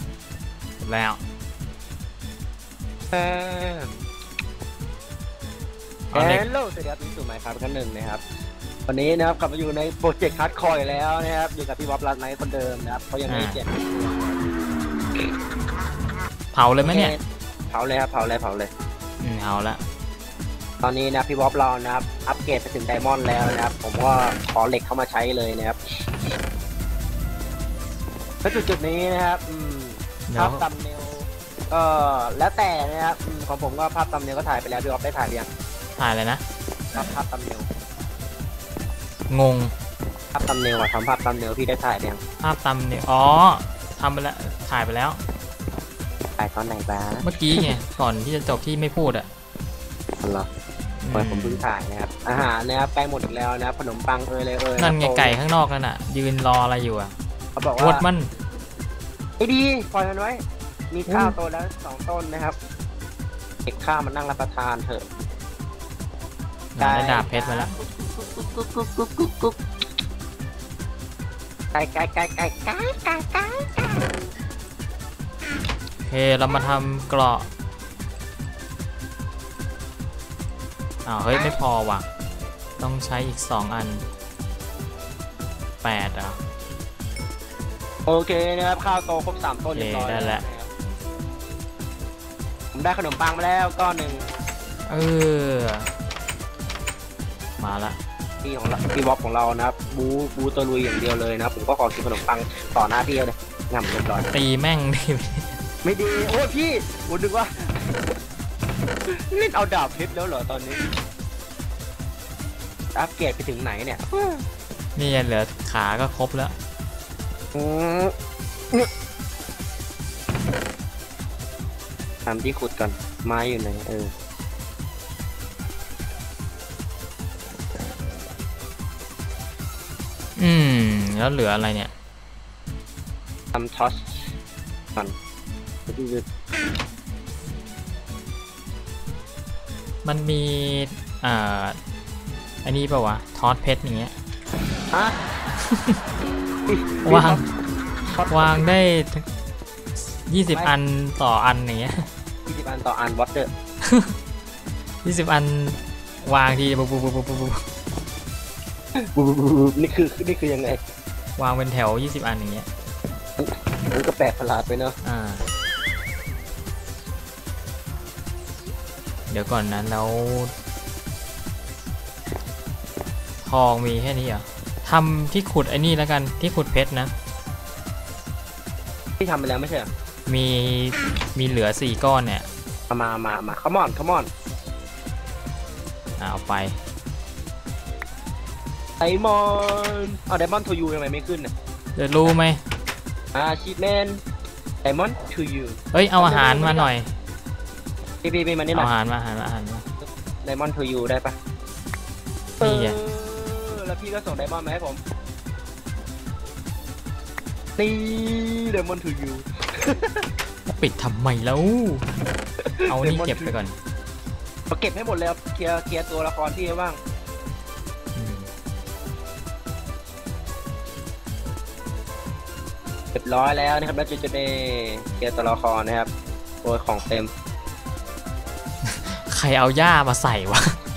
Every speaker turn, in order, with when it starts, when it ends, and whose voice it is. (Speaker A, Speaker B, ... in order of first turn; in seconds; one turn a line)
Speaker A: 0.8-1.2
Speaker B: 3.1-3.9
Speaker A: 6.1-6.5
Speaker B: 6.1-8.2
Speaker B: 8.9-14.4
Speaker A: 13.3-13.6
Speaker A: 16.5-17.1
Speaker B: 16.8-18.7
Speaker A: 19.2-19.8
Speaker B: 20.8-26.1
Speaker B: 28.4-35.5
Speaker A: 30.3-30.6
Speaker A: 36.0-36.4
Speaker B: 37.0-37.7
Speaker A: 39.3-39.7
Speaker B: 40.4-42.2
Speaker A: 42.4-45.2
Speaker B: 46.4-47.7
Speaker A: 47.2-49.3
Speaker B: 50.2-50.5
Speaker A: 51.0-51.6
Speaker B: 51.1-55.4
Speaker A: 54.8-57.1
Speaker B: 57.6-58.1
Speaker A: 57.8-58.3
Speaker B: 59.4-62.6
Speaker A: 61.1-61.4
Speaker B: 63.7-65.0
Speaker A: 66.8-67.7
Speaker B: 66.8-69.6
Speaker B: 71.7-74.1
Speaker A: 76.1-77.5
Speaker A: 81.0-82.1
Speaker B: 81.3-81.6
Speaker A: 82.8-84.1
Speaker A: 85.8-86.4
Speaker B: 88.1-90.7
Speaker A: 89.8-90.4
Speaker B: 92.7-94.3
Speaker A: 94.9-95.9
Speaker A: 97.6-98.0
Speaker B: 98.4-104.3
Speaker A: 104.3-105.5
Speaker B: 105.8-108.0
Speaker B: 109.1-110.8
Speaker B: 113.0-114.4
Speaker A: 115.0-116.5
Speaker B: 117.5-118.1
Speaker B: 122.3-124.1
Speaker A: 130.4-131.9
Speaker B: 133.5-134.3
Speaker B: 135.9-136.2
Speaker A: 140.1-141.8
Speaker A: 142.6-144.1
Speaker B: 144.9-145.2
Speaker A: 145.7-146.0
Speaker B: 146.7-147.4
Speaker A: 147.1-147.5
Speaker B: 148.2-148.7
Speaker A: 148.2-149.2
Speaker A: 150.3-152.1
Speaker B: 152.5-153.5
Speaker A: 153.8-154.1
Speaker A: 155.0-157.6
Speaker B: 159.0-160.8
Speaker A: 161.4-162.7
Speaker B: 163.4-164.9
Speaker A: 165.0-165.5
Speaker A: 169.3-170.5
Speaker A: 173.4-177.1
Speaker B: 179.2-179.9
Speaker A: 180.3-182.5
Speaker B: 182.9-184.3
Speaker A: 186.2-186.8
Speaker B: 189.0-191.5
Speaker A: 192.0-192.6
Speaker B: 193.3-194.2
Speaker B: 194.8-196.9
Speaker A: 195.9-197.1
Speaker B: 198.2-198.9
Speaker A: 198.7-199.8
Speaker B: 200.0-201.4
Speaker B: 202.6-205.0
Speaker A: 202.6-203.0
Speaker B: 207.8-210.2
Speaker A: 210.7-212.1
Speaker B: 212.6-213.6
Speaker A: 212.9-213.8
Speaker B: 214.7-217.0
Speaker A: 218.2-218.5
Speaker B: 223.2-226.1
Speaker B: 226.6-227.3
Speaker A: 228.8-230.8